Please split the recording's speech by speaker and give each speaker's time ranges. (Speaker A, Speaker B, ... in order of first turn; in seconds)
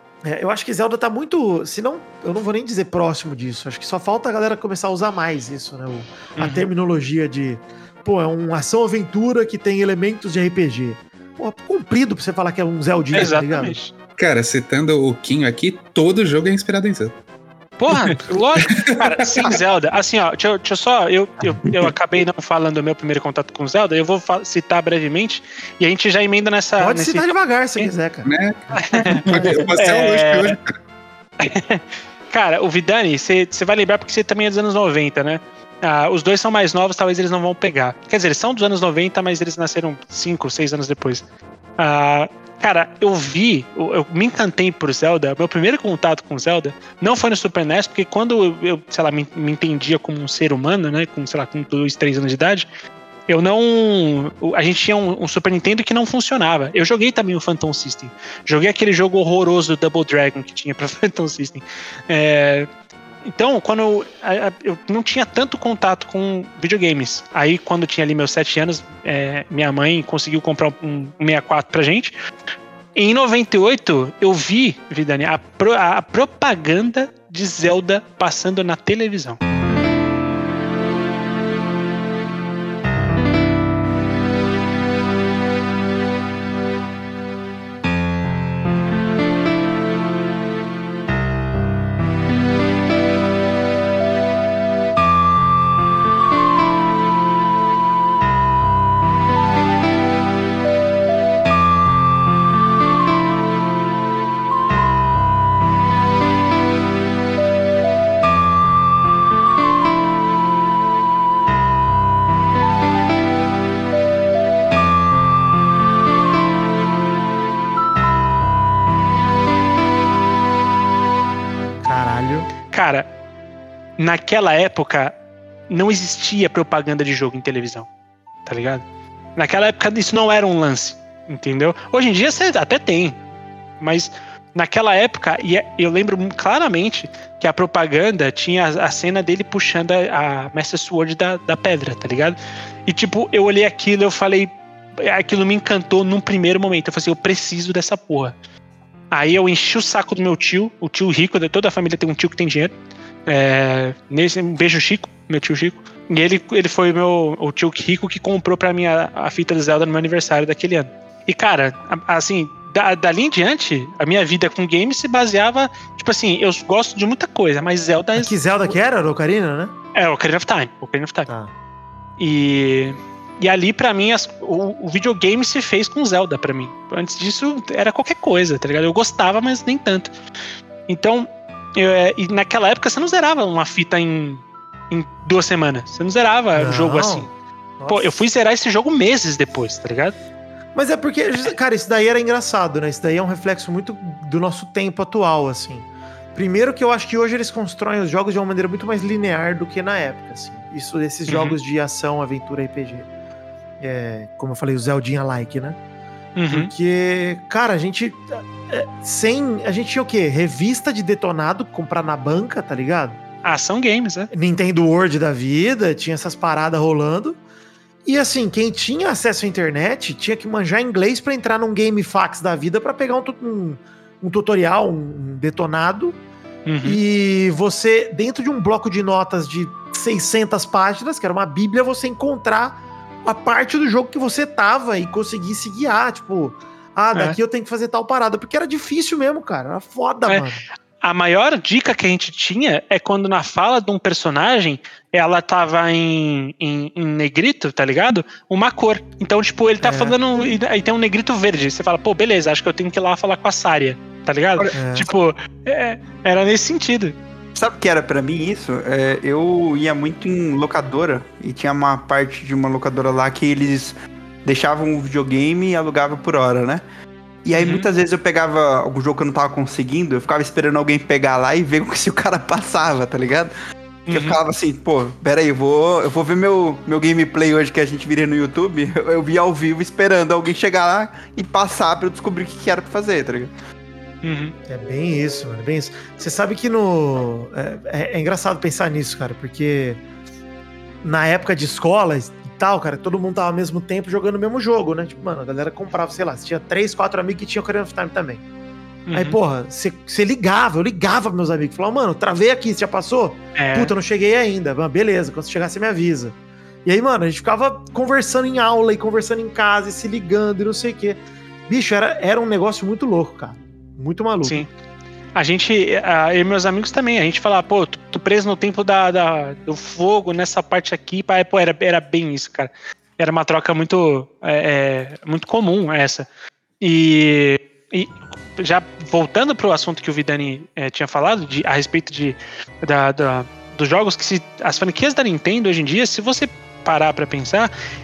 Speaker A: 0.2-13.8, 26.8-28.3, 29.2-29.6, 121.8-122.5, 168.2-169.8, 171.3-171.5, 186.6-188.1, 190.8-203.1, 203.8-205.8, 206.5-213.2, 214.3-217.4, 218.1-226.2, 226.8-240.6, 249.8-250.2, 254.7-255.1, 284.7-290.0, 291.0-298.4, 299.1-314.7
Speaker B: 6.4-6.7, 13.1-13.9, 17.8-27.9, 28.8-30.6, 31.4-41.2, 41.8-52.7, 53.3-62.7, 63.2-72.2, 73.0-79.4, 122.7-123.1, 124.0-125.2, 125.7-127.9, 128.5-128.8, 129.4-133.2, 133.8-142.4, 142.9-148.3, 149.1-152.7, 153.3-168.3, 169.9-171.3, 172.2-180.1, 180.9-187.3, 187.9-190.2, 201.3-201.6, 206.4-206.7, 213.4-214.3, 226.7-227.0, 241.0-257.2, 267.5-267.9, 274.1-274.4, 284.2-284.5, 299.1-299.4, 303.6-303.9, 314.4-314.7, 315.4-326.3, 326.8-337.7
Speaker C: 14.2-17.1, 17.9-19.6, 28.2-30.8
Speaker D: 257.6-266.8, 267.4-273.5, 274.1-283.5